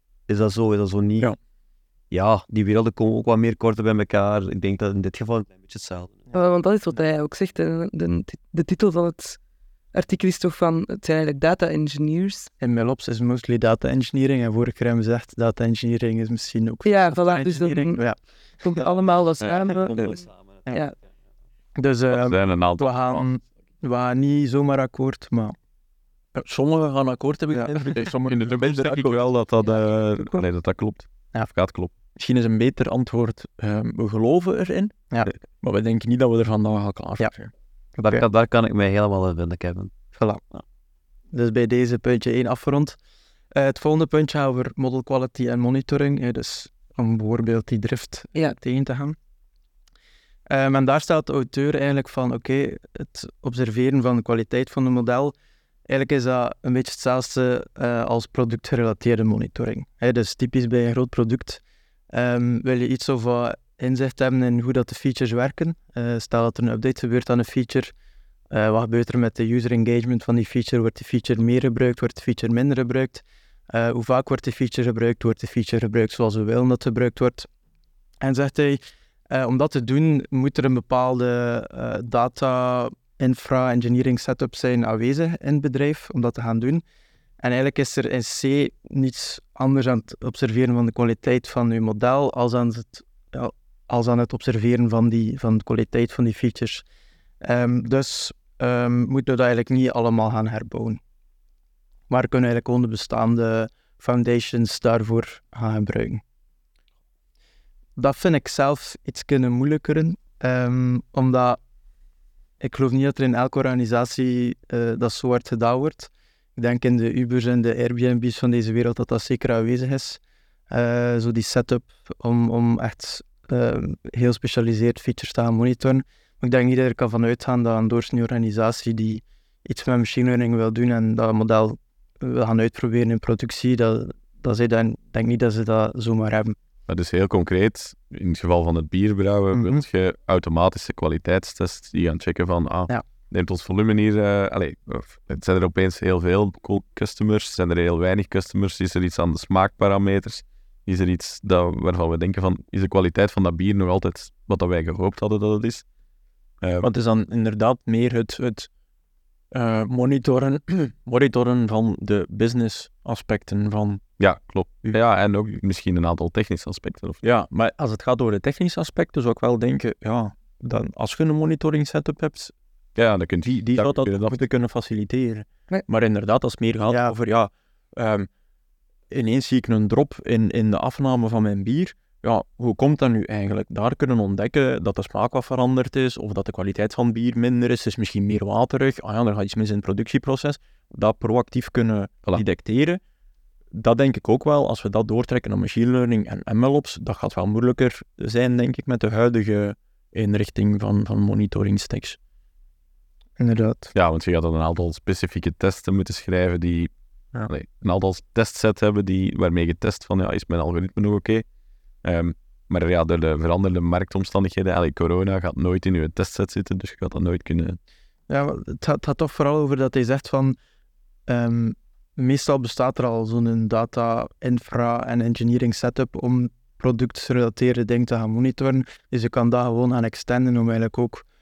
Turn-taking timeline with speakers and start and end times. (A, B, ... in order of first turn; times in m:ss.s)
0:00.3-0:01.3 A
0:02.1-0:06.2 A
0:06.3-0:09.4 B
0:09.9-0:12.5 B
0:12.6-0:18.2 C
0:16.8-0:18.0 B
0:18.6-0:20.9 B
0:21.8-0:25.6 C
0:22.1-0:23.2 D
0:26.4-0:29.1 E
0:28.2-0:31.9 D
0:32.2-0:37.5 E
0:38.0-0:38.2 C
0:38.0-0:39.9 A
0:40.1-0:40.4 C
0:41.3-0:43.0 C
0:43.5-0:49.2 C
0:50.5-0:55.3 C
0:55.9-1:01.6 C
1:02.1-1:07.9 C
1:08.5-1:17.5 C
1:18.2-1:26.8 C
1:27.4-1:36.8 C
1:37.4-1:41.0 C
1:42.1-1:46.2 C
1:48.0-1:51.6 C
1:52.6-2:16.6 C
2:16.9-2:35.8 D
2:19.5-2:19.8 C
2:36.6-2:36.9 D
2:36.8-2:38.7 E
2:39.5-2:44.0 E
2:44.2-2:47.2 D
2:47.2-2:52.5 E
2:53.0-2:54.4 D
2:53.6-2:58.3 E
2:59.1-3:13.0 E
3:13.7-3:22.2 E
3:23.4-3:23.9 C
3:24.0-3:26.9 D
3:27.5-3:31.4 D
3:32.0-3:37.8 D
3:38.3-3:40.6 C
3:41.3-3:51.2 C